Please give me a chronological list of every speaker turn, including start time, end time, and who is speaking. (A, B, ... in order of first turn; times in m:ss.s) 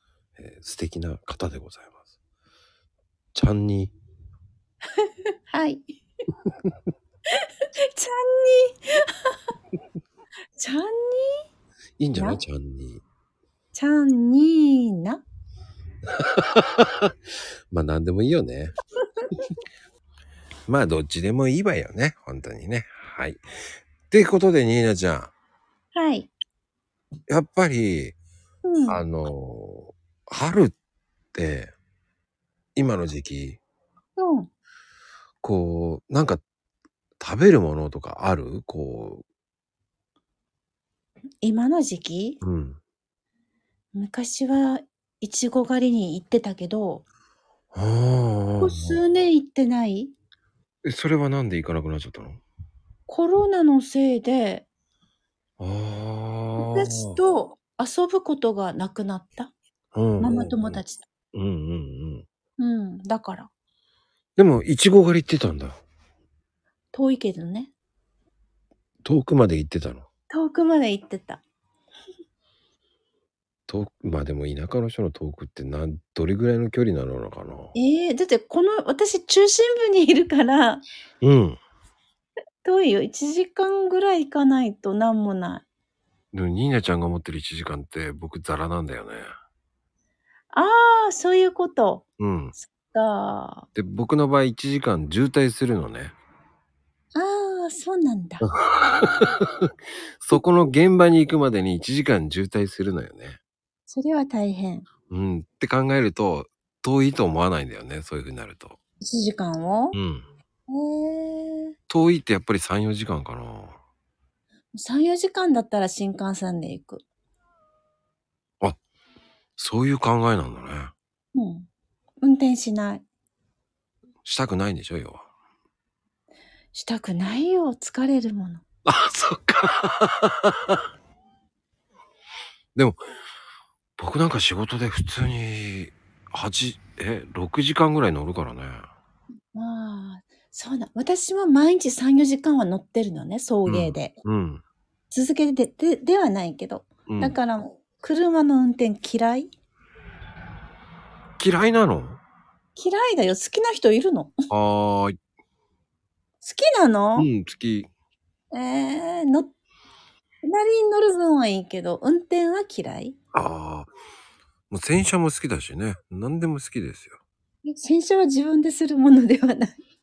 0:00.4-0:02.0 A
0:03.3-0:03.9 A
0:05.0-0:05.9 B
0:07.9-0:09.3 B
0:10.6-0:11.4 B
0:12.0-0:13.0 A
0:12.1-0:12.4 B
0:13.7-0:15.2 B
0:16.2-0:17.1 A
0:17.7-0:18.7 A
0:20.7-0:23.4 A
0:24.1-0:25.3 A
0:25.9-0:26.3 B
0:27.3-0:28.2 A
0:28.6-0:29.0 B
0:28.9-0:30.7 A
0:31.3-0:31.7 A
0:32.8-0:33.6 A
0:34.2-0:34.5 B
0:35.4-0:36.4 A
0:37.2-0:39.2 A
0:41.4-0:42.4 B
0:42.4-0:42.8 A
0:43.9-0:47.0 B
0:47.7-0:49.0 A
0:48.6-0:50.1 B
0:50.8-0:52.4 A
0:53.1-0:54.7 B
0:55.6-0:57.2 A
0:56.6-0:59.5 B
0:59.9-1:00.8 A
1:00.2-1:01.1 B
1:01.3-1:02.2 A
1:02.6-1:03.5 B
1:04.4-1:05.8 A
1:06.9-1:07.7 B
1:09.0-1:10.1 A
1:10.3-1:11.4 B
1:13.7-1:17.7 A
1:17.7-1:20.8 B
1:21.2-1:21.6 A
1:22.6-1:25.6 B
1:26.3-1:29.3 A
1:30.5-1:32.0 B
1:32.2-1:32.5 A
1:32.6-1:33.7 B
1:33.7-1:36.2 A
1:37.1-1:38.4 B
1:38.4-1:39.7 A
1:40.2-1:43.4 A
1:43.9-1:44.9 B
1:45.1-1:48.8 A
1:49.0-1:50.0 B
1:49.9-1:50.3 A
1:50.7-1:51.7 B
1:51.9-1:53.8 A
1:54.7-1:57.0 B
1:59.6-2:00.9 A
2:01.4-2:01.7 B
2:02.2-2:03.0 B
2:04.2-2:05.3 A
2:06.7-2:08.6 B
2:08.9-2:10.8 A
2:14.0-2:18.9 A
2:19.5-2:24.1 B
2:23.6-2:24.6 A
2:25.1-2:29.5 B
2:27.1-2:27.4 A
2:31.4-2:32.2 A
2:32.8-2:34.5 B
2:34.5-2:35.2 A
2:36.4-2:37.3 B
2:37.2-2:37.9 A
2:38.5-2:39.5 B
2:40.4-2:43.2 B
2:43.3-2:43.9 A
2:44.7-2:47.2 A
2:47.6-2:49.8 B